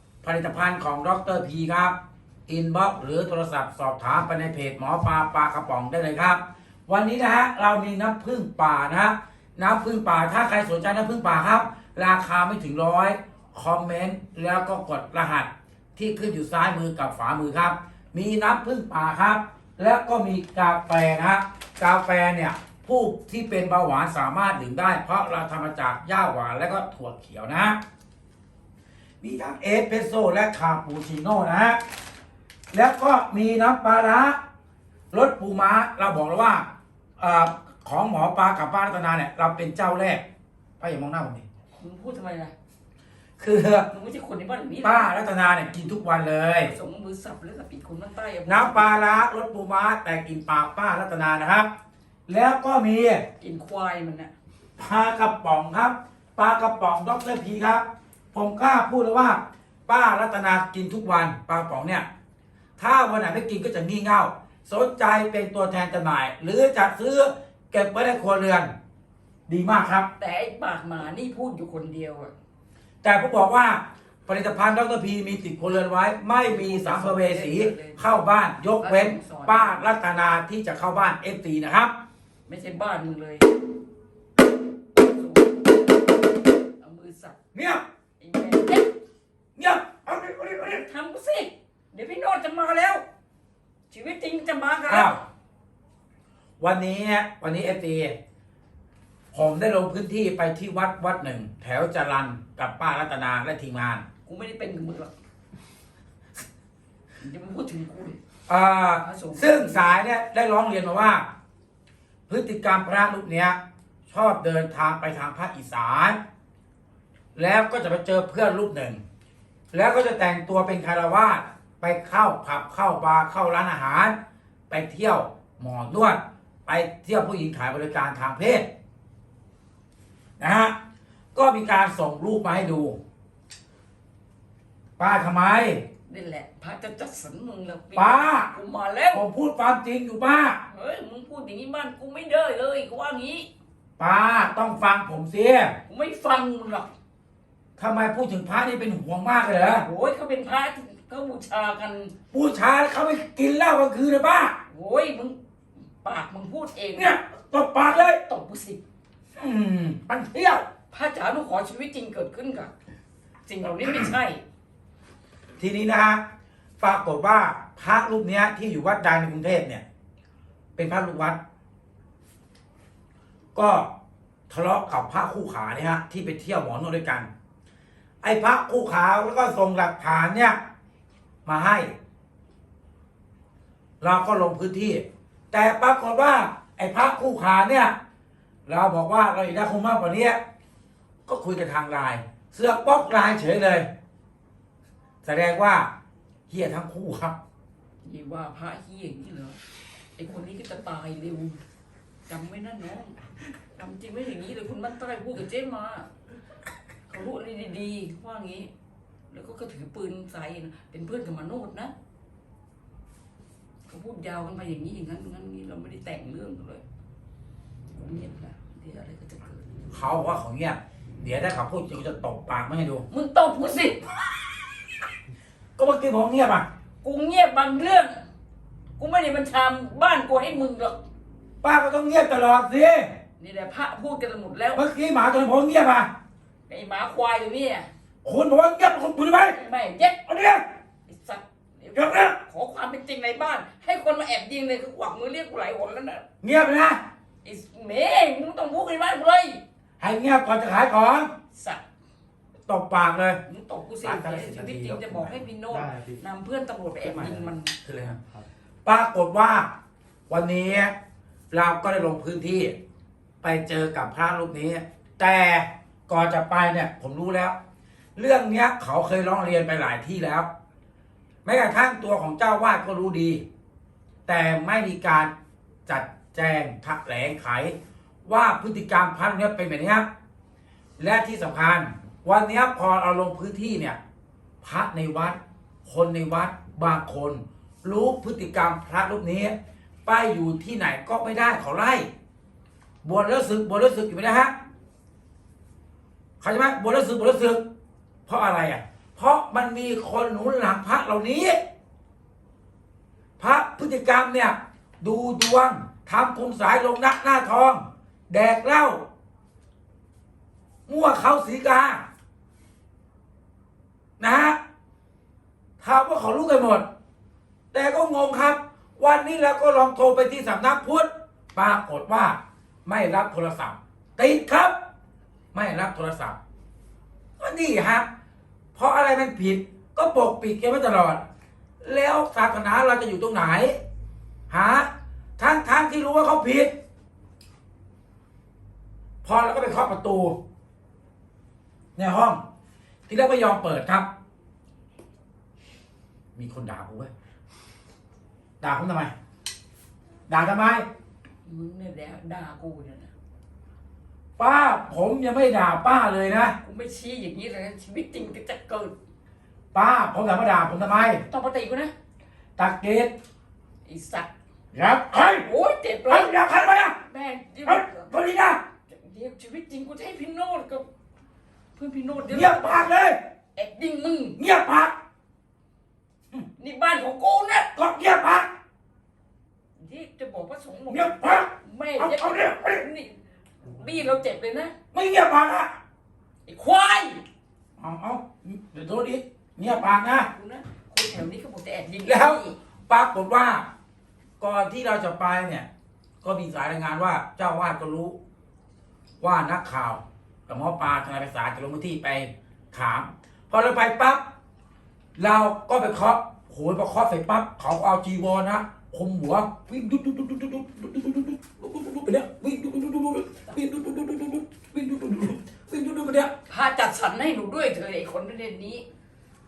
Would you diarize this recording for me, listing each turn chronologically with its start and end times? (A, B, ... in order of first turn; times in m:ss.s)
0:00.2-0:02.0 A
0:02.5-0:27.8 A
0:29.2-0:31.8 A
0:32.7-0:34.4 A
0:35.1-0:36.6 A
0:37.2-0:40.2 A
0:40.8-0:41.4 A
0:41.8-0:42.5 B
0:43.4-0:43.9 A
0:43.9-0:45.2 B
0:44.8-0:46.7 A
0:46.6-0:49.1 B
0:48.5-0:51.7 A
0:52.3-0:53.3 A
0:53.4-0:54.3 B
0:54.8-1:02.1 A
1:02.8-1:08.7 A
1:09.5-1:10.1 A
1:10.2-1:12.3 B
1:13.0-1:21.9 A
1:16.4-1:18.0 B
1:18.8-1:19.8 B
1:22.5-1:23.6 B
1:24.9-1:27.4 B
1:27.5-1:27.8 A
1:28.2-1:28.9 B
1:29.6-1:30.8 A
1:30.7-1:33.0 B
1:33.9-1:35.2 B
1:34.9-1:35.2 A
1:36.6-1:38.1 A
1:39.3-1:44.0 A
1:44.3-1:45.1 B
1:47.2-1:48.2 B
1:48.5-1:51.3 A
1:49.0-1:50.0 B
1:52.3-1:53.6 A
1:54.1-1:56.2 A
1:57.4-1:59.0 A
1:59.7-2:04.2 A
2:04.7-2:08.7 A
2:10.4-2:10.8 A
2:11.4-2:13.0 A
2:15.0-2:15.8 A
2:16.1-2:19.2 B
2:18.0-2:18.5 A
2:19.1-2:20.6 A
2:20.7-2:23.5 B
2:24.0-2:25.8 A
2:25.9-2:26.9 B
2:27.8-2:29.9 A
2:29.7-2:32.1 B
2:32.3-2:34.6 A
2:34.7-2:35.4 B
2:36.0-2:37.2 B
2:37.0-2:38.2 A
2:37.9-2:38.8 B
2:39.4-2:40.6 A
2:40.7-2:42.7 B
2:43.5-2:44.4 B
2:45.6-2:46.2 A
2:46.8-2:49.8 A
2:50.8-2:51.4 A
2:53.6-2:53.9 A
2:54.5-2:57.3 A
2:58.2-3:00.6 A
3:01.4-3:01.9 A
3:04.0-3:08.0 A
3:08.7-3:10.4 A
3:11.3-3:13.9 A
3:15.2-3:15.9 A
3:16.5-3:17.4 A
3:18.0-3:19.6 B
3:20.2-3:21.6 B
3:22.3-3:23.2 B
3:23.8-3:26.1 B
3:27.1-3:28.7 B
3:29.3-3:31.9 B
3:33.9-3:36.8 B
3:38.0-3:39.6 B
3:39.9-3:43.1 A
3:43.1-3:45.0 B
3:45.8-3:46.7 A
3:47.0-3:48.2 B
3:49.0-3:51.0 B
3:51.6-3:53.2 A
3:53.4-3:54.8 B
3:54.8-3:56.1 A
3:56.7-3:57.9 B
3:58.2-3:59.6 A
3:59.5-4:00.2 B
4:00.3-4:00.6 A
4:01.1-4:06.2 B
4:02.0-4:02.4 A
4:06.4-4:07.0 A
4:07.4-4:09.6 B
4:10.0-4:11.3 A
4:11.5-4:11.8 B
4:12.7-4:13.4 A
4:13.5-4:17.8 B
4:14.0-4:15.4 A
4:17.0-4:18.2 A
4:18.8-4:19.7 A
4:20.3-4:20.9 A
4:21.5-4:22.8 A
4:23.4-4:27.6 A
4:28.2-4:30.5 A
4:31.4-4:33.4 A
4:34.3-4:35.3 A
4:35.9-4:37.7 A
4:38.3-4:40.1 A
4:41.0-4:44.0 A
4:44.6-4:52.1 A
4:53.0-4:54.5 A
4:56.4-4:57.6 A
4:58.3-5:01.6 A
5:03.4-5:09.0 A
5:10.9-5:12.0 A
5:14.2-5:14.6 A
5:15.8-5:16.8 A
5:17.7-5:24.7 A
5:25.5-5:26.4 A
5:27.4-5:28.1 A
5:28.8-5:31.2 A
5:31.8-5:33.8 A
5:34.5-5:36.7 A
5:39.2-5:40.4 A
5:42.0-5:42.4 A
5:43.1-5:44.1 A
5:46.4-5:47.1 A
5:48.6-5:49.1 A
5:50.3-5:50.8 A
5:51.5-5:53.1 B
5:54.4-5:56.6 A
5:56.6-5:58.9 B
5:59.7-6:01.2 A
6:01.2-6:01.9 B
6:02.6-6:03.1 A
6:03.9-6:04.3 B
6:04.7-6:05.5 A
6:05.3-6:06.3 B
6:06.1-6:07.0 A
6:07.1-6:08.2 B
6:07.7-6:08.6 A
6:08.9-6:10.8 B
6:11.8-6:12.9 B
6:12.3-6:13.2 A
6:13.6-6:14.4 B
6:14.4-6:15.0 A
6:16.6-6:17.7 B
6:17.8-6:18.5 A
6:19.8-6:24.7 B
6:20.9-6:22.9 A
6:24.9-6:25.8 A
6:26.5-6:27.2 B
6:27.8-6:30.3 A
6:29.6-6:32.6 B
6:32.1-6:33.6 A
6:34.4-6:35.7 A
6:36.2-6:38.2 A
6:39.2-6:44.2 A
6:45.2-6:56.3 A
6:56.5-6:58.8 B